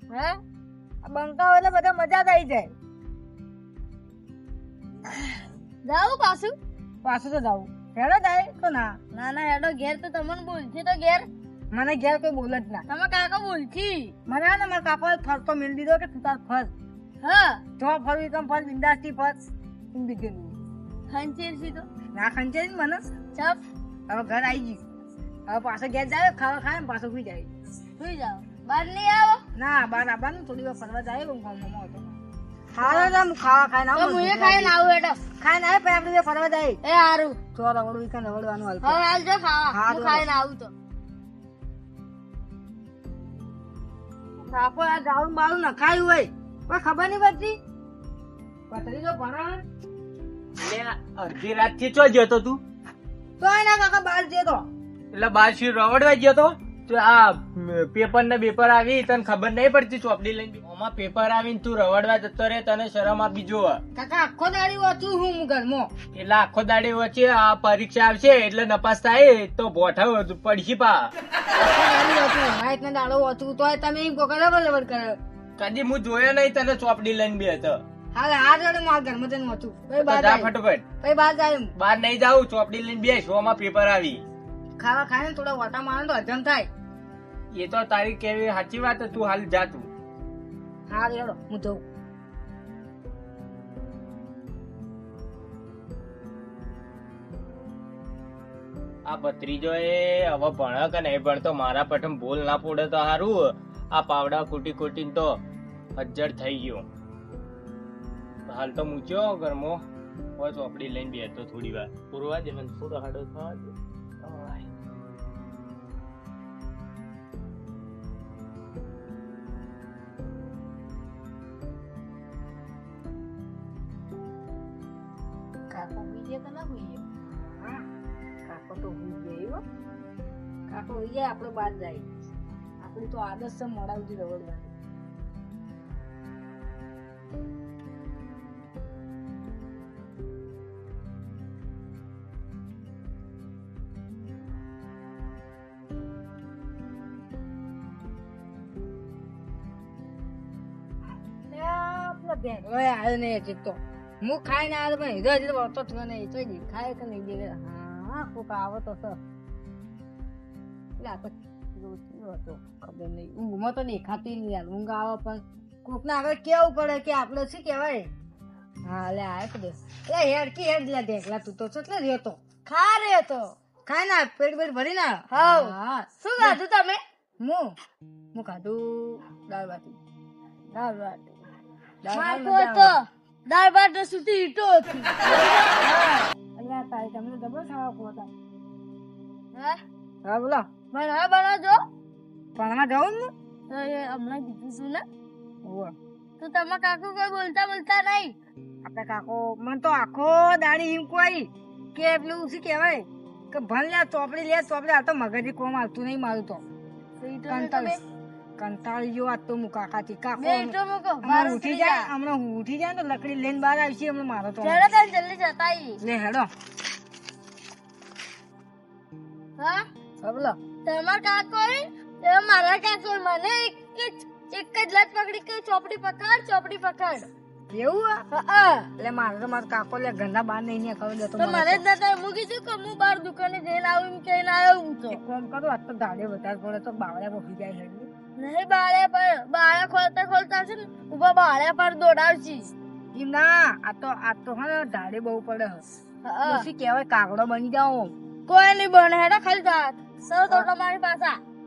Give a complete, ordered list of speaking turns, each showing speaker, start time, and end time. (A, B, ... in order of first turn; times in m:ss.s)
0:00.1-0:00.4 A
0:01.0-0:02.7 B
0:05.1-0:06.6 A
0:07.0-0:08.9 B
0:09.1-0:11.3 A
0:11.7-0:12.9 B
0:12.9-0:14.2 A
0:14.3-0:16.7 B
0:17.2-0:17.6 A
0:17.8-0:19.4 B
0:19.9-0:20.6 B
0:21.1-0:21.9 A
0:22.2-0:23.0 B
0:24.1-0:24.8 B
0:25.5-0:27.5 B
0:28.0-0:29.4 A
0:29.6-0:32.2 B
0:32.7-0:34.8 B
0:32.8-0:33.1 A
0:34.0-0:35.2 A
0:35.4-0:36.8 B
0:36.8-0:37.4 A
0:37.6-0:39.0 B
0:38.8-0:40.7 A
0:39.7-0:40.3 B
0:44.4-0:47.6 B
0:48.7-0:49.6 B
0:50.6-0:52.6 C
0:53.4-0:54.6 B
0:55.1-1:03.8 C
1:04.0-1:05.9 B
1:06.2-1:11.1 C
1:11.6-1:15.2 B
1:15.6-1:17.8 C
1:18.1-1:21.7 B
1:20.0-1:20.8 C
1:21.8-1:24.2 C
1:24.8-1:26.7 B
1:27.5-1:29.9 C
1:30.9-1:31.8 B
1:39.1-1:45.4 C
1:46.0-1:46.8 C
1:48.5-1:49.8 C
1:50.4-1:54.7 C
2:05.7-2:07.0 B
2:07.6-2:07.8 B
2:08.5-2:09.6 B
2:10.7-2:12.1 B
2:12.8-2:14.7 B
2:31.5-2:39.2 B
2:41.0-2:48.1 B
2:48.9-2:52.4 B
2:52.7-2:53.5 A
2:53.9-2:56.6 B
2:55.3-2:57.0 A
2:57.4-2:57.8 B
2:58.3-3:00.0 B
3:00.7-3:01.3 B
3:02.0-3:02.9 B
3:02.1-3:05.8 A
3:05.8-3:08.3 B
3:09.5-3:09.8 A
3:10.3-3:10.7 B
3:10.9-3:11.8 A
3:12.6-3:13.3 B
3:13.7-3:15.0 A
3:15.6-3:15.9 B
3:16.4-3:18.4 A
3:18.8-3:26.6 B
3:27.2-3:28.0 A
3:27.5-3:28.0 B
3:28.6-3:34.8 B
3:30.4-3:32.1 A
3:34.6-3:36.0 A
3:36.0-3:36.5 B
3:39.6-3:39.9 A
3:40.2-3:40.6 B
3:40.8-3:47.3 A
3:47.7-3:48.2 B
3:48.3-3:48.9 A
3:49.0-3:51.8 B
3:51.4-3:55.2 A
3:55.1-3:58.1 B
3:58.4-4:02.7 A
4:03.1-4:05.8 B
4:06.2-4:06.7 A
4:06.5-4:08.1 B
4:08.5-4:11.4 A